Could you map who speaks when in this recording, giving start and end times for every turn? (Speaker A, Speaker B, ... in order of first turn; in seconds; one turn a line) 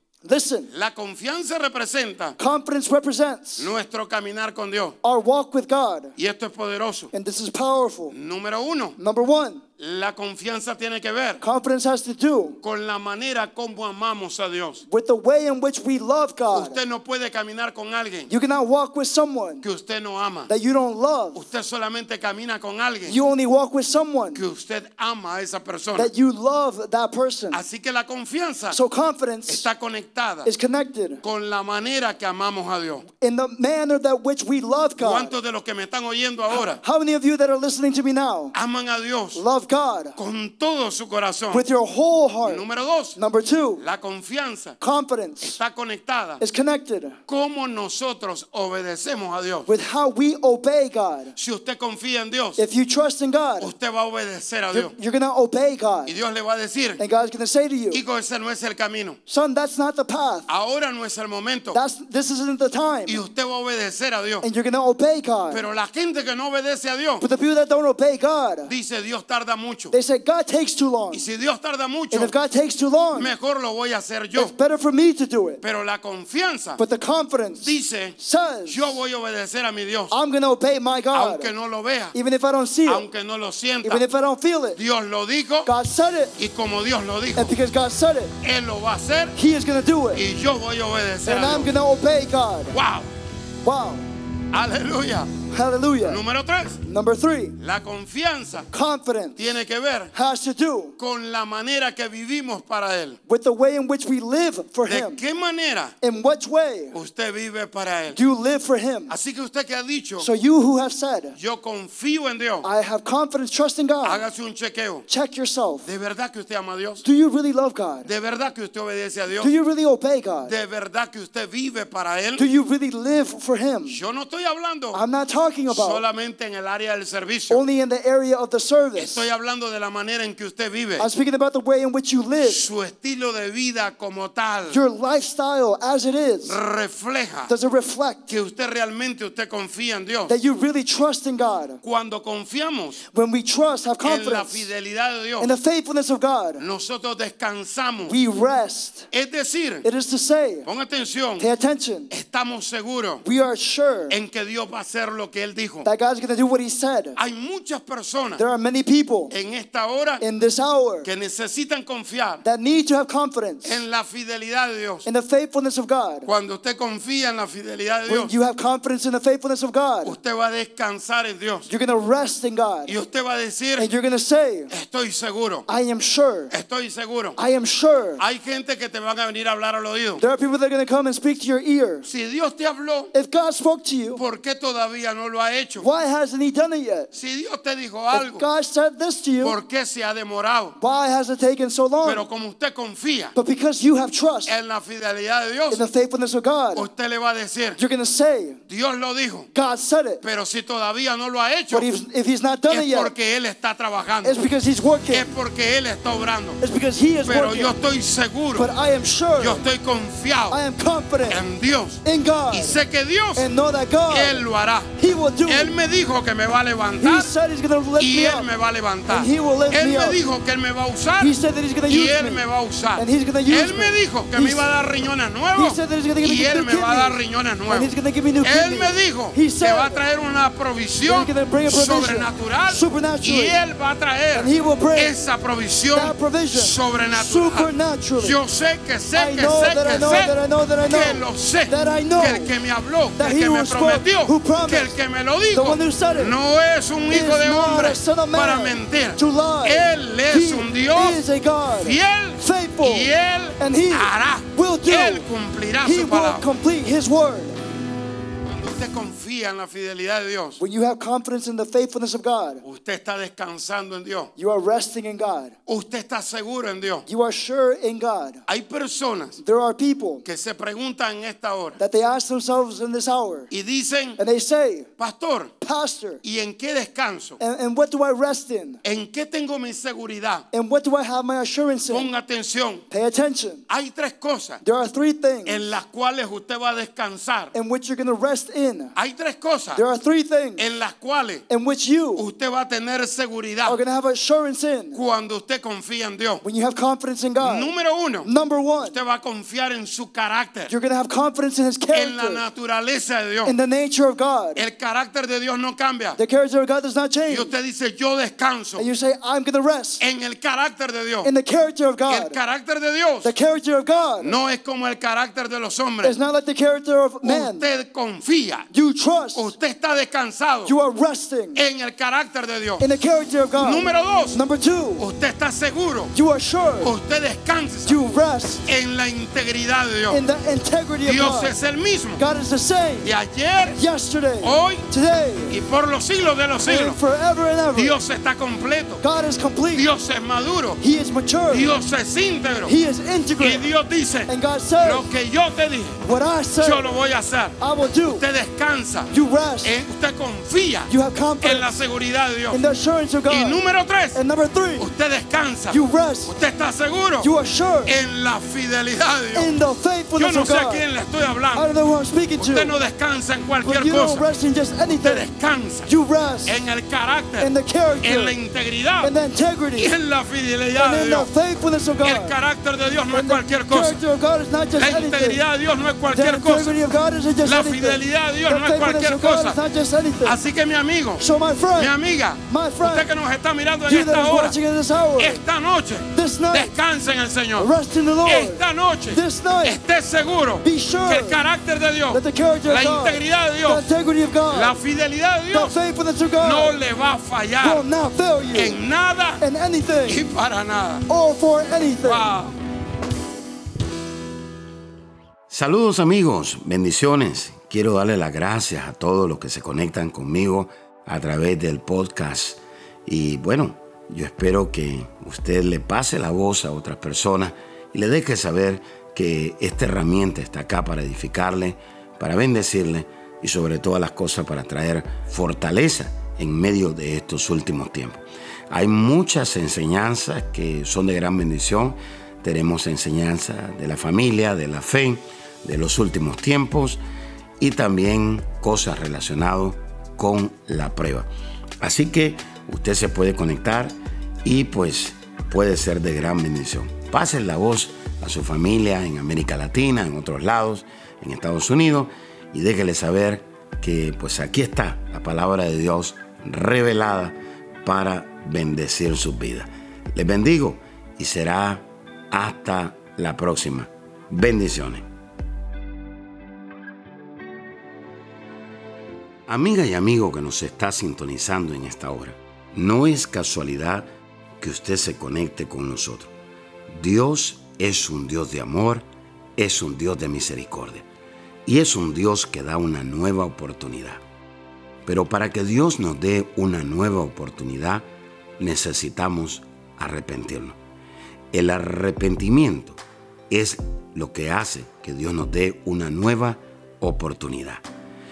Speaker A: 0.2-0.7
Speaker B: 0.7-2.4
Speaker A: 2.4-3.7
Speaker B: 3.6-5.0
Speaker A: 5.0-6.1
Speaker B: 6.2-7.1
Speaker A: 7.1-8.1
Speaker B: 8.1-9.0
Speaker A: 9.0-9.6
Speaker B: 9.8-11.4
Speaker A: 11.4-12.6
Speaker B: 12.6-14.8
Speaker A: 14.8-16.8
Speaker B: 16.5-18.3
Speaker A: 18.3-19.6
Speaker B: 19.6-20.5
Speaker A: 20.5-21.4
Speaker B: 21.3-23.2
Speaker A: 23.1-24.4
Speaker B: 24.3-26.1
Speaker A: 25.9-27.6
Speaker B: 27.5-28.8
Speaker A: 28.7-29.6
Speaker B: 29.5-30.5
Speaker A: 30.4-31.2
Speaker B: 31.2-33.0
Speaker A: 33.2-35.4
Speaker B: 35.0-36.8
Speaker A: 36.5-38.5
Speaker B: 38.5-39.4
Speaker A: 39.3-40.2
Speaker B: 40.1-41.6
Speaker A: 41.5-43.8
Speaker B: 42.4-43.2
Speaker B: 43.8-44.8
Speaker A: 44.8-45.6
Speaker B: 45.4-46.4
Speaker A: 46.4-47.2
Speaker B: 47.3-49.7
Speaker A: 49.6-51.3
Speaker B: 51.3-52.6
Speaker A: 52.6-53.7
Speaker B: 53.6-54.9
Speaker A: 54.7-56.1
Speaker B: 56.0-57.0
Speaker A: 57.0-58.0
Speaker B: 57.9-59.2
Speaker A: 59.3-60.5
Speaker B: 60.5-61.8
Speaker A: 61.7-63.2
Speaker B: 63.0-64.4
Speaker A: 64.4-65.7
Speaker B: 65.5-67.2
Speaker A: 67.2-68.7
Speaker B: 68.6-69.9
Speaker A: 69.9-71.2
Speaker B: 71.1-72.3
Speaker A: 72.1-73.3
Speaker B: 73.1-74.5
Speaker A: 74.3-75.6
Speaker B: 75.6-76.8
Speaker A: 76.8-79.0
Speaker B: 77.6-80.1
Speaker A: 80.1-81.5
Speaker B: 81.1-82.2
Speaker A: 82.1-83.1
Speaker B: 82.8-84.0
Speaker A: 83.8-84.8
Speaker B: 84.7-85.7
Speaker A: 85.6-86.3
Speaker B: 86.4-87.5
Speaker A: 87.3-88.3
Speaker B: 88.4-89.3
Speaker A: 89.3-90.2
Speaker B: 90.1-91.7
Speaker A: 91.2-92.8
Speaker B: 92.7-93.1
Speaker A: 93.6-94.1
Speaker B: 94.5-95.3
Speaker A: 95.5-96.2
Speaker B: 96.0-96.8
Speaker A: 96.8-97.5
Speaker B: 97.6-98.7
Speaker A: 98.7-99.5
Speaker B: 99.4-100.1
Speaker A: 100.1-100.9
Speaker B: 101.0-103.2
Speaker A: 103.3-105.2
Speaker B: 104.8-105.9
Speaker A: 106.0-107.0
Speaker B: 106.9-108.2
Speaker A: 108.1-109.1
Speaker B: 109.1-110.3
Speaker A: 110.2-111.3
Speaker B: 111.3-112.7
Speaker A: 112.6-114.2
Speaker B: 114.0-115.1
Speaker A: 115.1-115.8
Speaker B: 115.8-117.0
Speaker A: 117.0-118.1
Speaker B: 118.0-119.5
Speaker A: 119.4-120.5
Speaker B: 120.4-122.5
Speaker A: 122.3-124.0
Speaker B: 123.8-125.0
Speaker A: 124.9-126.0
Speaker B: 125.7-127.6
Speaker A: 127.5-129.2
Speaker B: 128.9-131.1
Speaker A: 131.0-132.7
Speaker B: 132.4-134.8
Speaker A: 134.7-136.6
Speaker B: 136.4-137.5
Speaker A: 137.5-138.3
Speaker B: 138.3-140.3
Speaker A: 140.2-141.8
Speaker B: 141.8-143.0
Speaker A: 143.1-144.7
Speaker B: 144.0-145.5
Speaker A: 145.4-146.6
Speaker B: 146.6-148.2
Speaker A: 148.1-149.1
Speaker B: 149.1-149.8
Speaker A: 149.8-150.7
Speaker B: 150.6-151.5
Speaker A: 151.4-152.1
Speaker B: 152.1-153.2
Speaker A: 153.2-154.2
Speaker B: 154.1-155.9
Speaker A: 155.8-157.2
Speaker B: 157.2-158.4
Speaker A: 158.3-159.3
Speaker B: 159.3-160.2
Speaker A: 160.2-161.1
Speaker B: 161.0-162.4
Speaker A: 162.4-163.8
Speaker B: 163.6-165.1
Speaker A: 165.0-166.3
Speaker B: 166.2-168.3
Speaker A: 168.1-170.2
Speaker B: 170.0-171.7
Speaker A: 171.7-173.0
Speaker B: 172.8-173.9
Speaker A: 173.8-174.7
Speaker B: 174.7-175.7
Speaker A: 175.7-176.5
Speaker B: 176.5-177.4
Speaker A: 177.4-178.2
Speaker B: 178.2-180.2
Speaker A: 180.2-182.1
Speaker B: 182.0-183.1
Speaker A: 183.1-184.2
Speaker B: 184.1-185.9
Speaker A: 185.8-187.1
Speaker B: 187.1-188.4
Speaker A: 188.1-189.6
Speaker B: 189.4-190.8
Speaker A: 190.8-192.2
Speaker B: 192.0-193.3
Speaker A: 193.3-194.5
Speaker B: 194.4-195.8
Speaker A: 195.7-196.9
Speaker B: 196.7-197.8
Speaker A: 197.8-198.6
Speaker B: 198.7-199.5
Speaker A: 199.5-200.2
Speaker B: 200.2-201.9
Speaker A: 201.7-203.1
Speaker B: 202.7-204.4
Speaker A: 204.2-205.3
Speaker B: 205.1-206.6
Speaker A: 206.6-207.7
Speaker B: 207.2-208.7
Speaker A: 208.5-209.6
Speaker B: 209.4-210.6
Speaker A: 210.5-211.4
Speaker B: 211.3-213.5
Speaker A: 212.0-212.8
Speaker A: 213.3-215.8
Speaker B: 214.1-214.9
Speaker B: 215.4-217.3
Speaker A: 217.0-218.5
Speaker B: 218.0-251.2
Speaker A: 219.1-220.2
Speaker A: 221.2-224.7
Speaker A: 225.5-230.0
Speaker A: 231.0-233.6
Speaker A: 234.3-235.2
Speaker A: 235.9-238.4
Speaker A: 239.1-242.5
Speaker A: 243.2-245.0
Speaker A: 245.5-246.3
Speaker A: 247.1-255.3
Speaker B: 251.8-256.4
Speaker A: 255.8-257.6
Speaker B: 258.4-260.6
Speaker A: 260.6-262.6
Speaker B: 262.6-264.3
Speaker A: 264.4-265.6
Speaker B: 265.7-267.0
Speaker A: 267.1-268.4
Speaker B: 268.5-269.4
Speaker A: 269.4-270.2
Speaker B: 270.2-271.8
Speaker A: 271.8-273.5
Speaker B: 273.5-274.2
Speaker A: 274.2-274.9
Speaker B: 275.0-275.5
Speaker A: 275.6-276.2
Speaker B: 276.2-277.4
Speaker A: 277.4-278.8
Speaker B: 278.8-280.5
Speaker A: 280.5-282.1
Speaker B: 281.9-282.8
Speaker A: 282.9-283.6
Speaker B: 283.7-284.6
Speaker A: 284.6-285.8
Speaker B: 285.4-287.5
Speaker A: 287.5-288.9
Speaker B: 288.9-289.8
Speaker A: 289.7-290.6
Speaker B: 290.6-291.4
Speaker A: 291.5-292.2
Speaker B: 292.1-293.8
Speaker A: 293.6-295.0
Speaker B: 294.9-296.4
Speaker A: 296.4-298.9
Speaker B: 297.4-298.3
Speaker B: 298.8-300.7
Speaker A: 300.7-302.4
Speaker B: 301.9-303.5
Speaker A: 303.4-304.6
Speaker B: 304.6-306.2
Speaker A: 306.2-307.5
Speaker B: 307.2-308.9
Speaker A: 308.8-310.0
Speaker B: 310.0-311.3
Speaker A: 311.2-312.4
Speaker B: 312.1-313.3
Speaker A: 313.2-314.4
Speaker B: 314.2-316.2
Speaker A: 316.0-317.7
Speaker B: 317.2-318.7
Speaker A: 318.7-319.5
Speaker B: 319.3-320.7
Speaker A: 320.6-321.6
Speaker B: 321.5-322.8
Speaker A: 322.8-325.1
Speaker B: 323.6-324.4
Speaker B: 325.0-326.1
Speaker A: 326.1-326.9
Speaker B: 326.8-328.0
Speaker A: 327.8-328.6
Speaker B: 328.6-330.2
Speaker A: 330.1-331.6
Speaker B: 331.0-332.2
Speaker A: 332.1-333.1
Speaker B: 333.0-333.8
Speaker A: 333.7-335.6
Speaker B: 334.4-334.9
Speaker B: 335.5-337.0
Speaker A: 336.6-338.0
Speaker B: 337.7-339.0
Speaker A: 339.0-339.9
Speaker B: 339.7-340.8
Speaker A: 340.8-341.8
Speaker B: 341.5-342.7
Speaker A: 342.6-343.7
Speaker B: 343.4-346.0
Speaker A: 344.2-345.1
Speaker A: 346.0-347.0
Speaker B: 346.6-352.6
Speaker A: 347.6-348.2
Speaker A: 349.1-349.7
Speaker A: 350.9-351.8
Speaker A: 352.5-354.9
Speaker B: 353.3-354.2
Speaker B: 354.8-357.3
Speaker A: 355.7-356.3
Speaker A: 357.2-357.9
Speaker B: 357.8-359.5
Speaker A: 359.3-360.9
Speaker B: 360.1-361.7
Speaker A: 361.5-362.8
Speaker B: 362.4-364.2
Speaker A: 363.6-365.3
Speaker B: 364.8-365.9
Speaker A: 365.8-366.6
Speaker B: 366.4-369.1
Speaker A: 367.4-368.4
Speaker A: 369.0-369.9
Speaker B: 369.8-371.3
Speaker A: 370.8-372.4
Speaker B: 372.0-374.0
Speaker A: 373.1-375.4
Speaker B: 374.8-376.8
Speaker A: 376.1-380.4
Speaker B: 377.4-379.6
Speaker B: 380.2-384.6
Speaker A: 381.2-381.9
Speaker A: 382.4-383.1
Speaker A: 383.9-385.4
Speaker B: 385.2-387.7
Speaker A: 386.1-386.7
Speaker A: 387.6-389.8
Speaker B: 388.2-393.8
Speaker A: 390.6-391.4
Speaker A: 392.1-394.8
Speaker B: 394.5-395.8
Speaker A: 395.5-396.8
Speaker B: 396.4-397.8
Speaker A: 397.6-398.8
Speaker B: 398.5-399.4
Speaker A: 399.4-400.3
Speaker B: 400.0-401.1
Speaker A: 401.1-402.4
Speaker B: 402.0-402.6
Speaker C: 405.5-437.0
Speaker C: 437.6-441.3
Speaker C: 441.8-465.1
Speaker C: 469.5-474.1
Speaker C: 474.6-476.3
Speaker C: 476.9-481.1
Speaker C: 481.6-484.2
Speaker C: 485.1-488.1
Speaker C: 488.6-490.8
Speaker C: 491.5-497.8